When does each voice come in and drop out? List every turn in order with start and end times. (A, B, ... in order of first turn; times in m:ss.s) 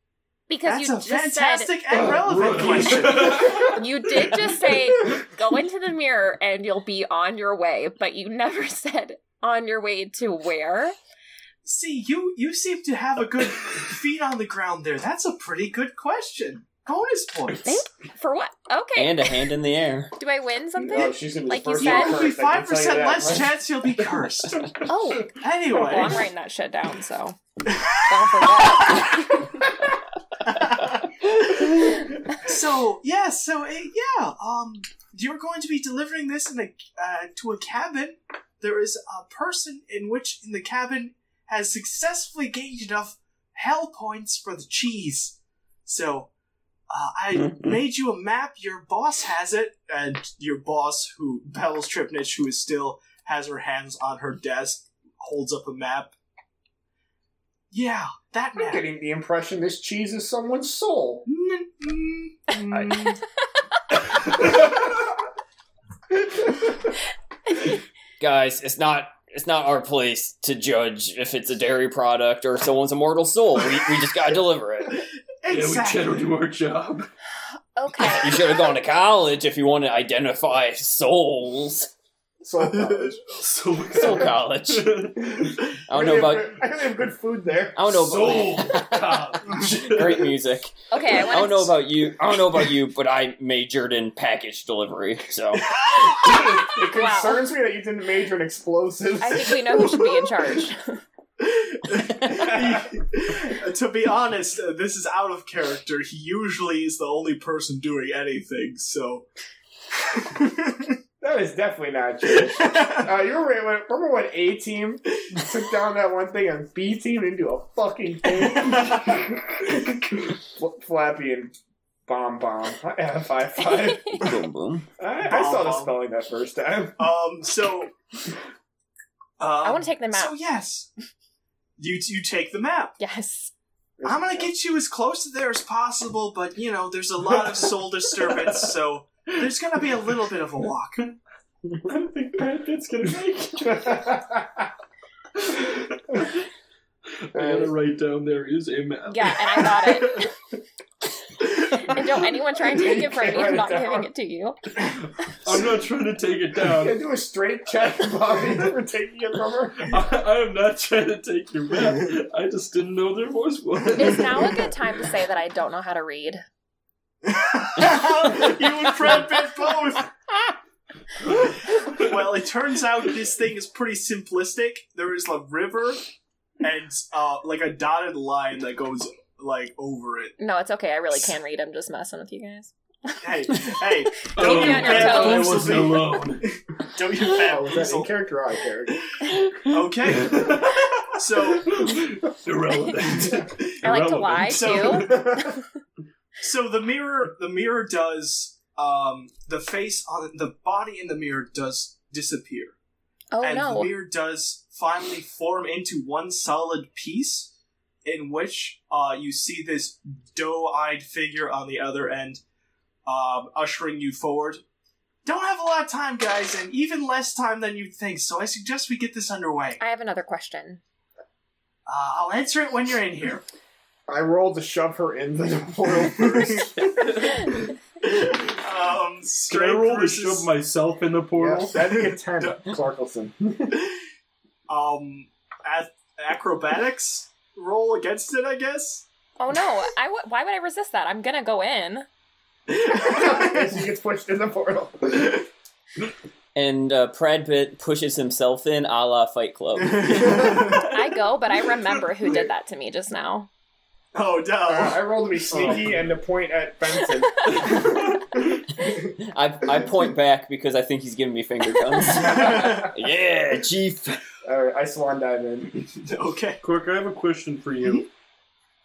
0:00.5-0:01.7 A
0:00.6-0:03.7 B
0:02.0-0:03.7 C
0:02.2-0:03.8 D
0:03.4-0:11.0 A
0:11.6-0:17.8 B
0:17.6-0:19.3 A
0:19.0-0:20.1 E
0:20.2-0:22.2 A
0:20.8-0:23.6 C
0:21.8-0:24.8 B
0:24.8-0:27.4 A
0:25.3-0:26.2 B
0:27.7-0:29.2 B
0:28.0-0:29.5 A
0:30.4-0:46.3 B
0:46.9-0:56.2 B
0:47.3-0:47.7 E
0:57.7-0:58.9 B
0:58.6-1:01.2 C
1:01.3-1:03.2 B
1:02.7-1:03.2 E
1:08.2-1:15.0 E
1:15.4-1:16.2 B
1:15.5-1:17.1 D
1:17.8-1:18.5 A
1:18.1-1:21.9 E
1:22.4-1:23.2 C
1:22.6-1:23.4 B
1:23.4-1:25.7 D
1:23.9-1:25.1 E
1:24.0-1:24.2 C
1:25.3-1:28.3 C
1:25.9-1:26.6 E
1:27.8-1:35.8 E
1:27.9-1:30.4 D
1:30.9-1:31.8 A
1:35.8-1:36.3 B
1:36.1-1:40.0 C
1:36.4-1:37.4 A
1:39.2-1:41.0 A
1:39.8-1:40.1 B
1:41.4-1:49.3 B
1:50.1-1:51.0 B
1:51.2-2:01.5 C
1:52.3-1:53.1 B
1:55.2-1:55.5 B
1:58.3-1:59.2 B
2:02.1-2:04.4 C
2:04.2-2:04.9 E
2:05.0-2:07.1 C
2:05.2-2:06.0 B
2:07.0-2:07.9 B
2:09.4-2:10.9 B
2:09.6-2:10.3 A
2:11.8-2:13.0 B
2:13.0-2:13.5 A
2:14.0-2:14.5 C
2:14.0-2:21.1 B
2:18.3-2:18.6 D
2:21.8-2:24.0 D
2:23.6-2:24.7 C
2:25.5-2:26.3 D
2:25.7-2:26.3 C
2:27.2-2:30.1 D
2:27.4-2:27.7 C
2:29.1-2:30.3 A
2:31.6-2:34.6 A
2:32.6-2:34.1 C
2:35.4-2:37.0 D
2:36.6-2:40.0 C
2:39.8-2:44.6 D
2:44.0-2:46.4 A
2:47.2-2:50.1 B
2:51.2-2:52.3 D
2:51.6-2:56.0 B
2:56.6-3:00.4 B
3:00.4-3:05.8 A
3:03.2-3:08.1 B
3:04.3-3:06.4 D
3:07.3-3:09.1 C
3:09.2-3:11.8 B
3:10.1-3:10.9 D
3:11.6-3:15.0 D
3:13.8-3:15.6 A
3:14.4-3:15.3 B
3:14.9-3:15.6 C
3:16.4-3:22.8 B
3:23.3-3:23.9 A
3:23.4-3:27.5 B
3:28.0-3:32.4 B
3:33.1-3:34.6 B
3:35.2-3:39.8 B
3:39.8-3:40.8 A
3:41.9-3:43.4 B
3:44.1-3:47.5 C
3:46.2-3:46.7 B
3:46.8-3:47.4 D
3:48.0-3:50.5 B
3:49.5-3:51.8 D
3:51.4-3:53.8 C
3:51.8-3:52.6 B
3:54.7-3:59.1 B
3:59.4-4:02.1 A
4:02.7-4:03.8 B
4:02.9-4:05.4 C
4:06.6-4:10.6 E
4:09.8-4:10.9 B
4:10.7-4:13.5 A
4:14.1-4:15.9 B
4:14.7-4:19.1 C
4:15.6-4:15.9 D
4:17.5-4:18.4 D
4:19.2-4:24.2 E
4:22.1-4:22.9 B
4:24.4-4:25.8 C
4:26.0-4:26.6 B
4:26.6-4:28.1 D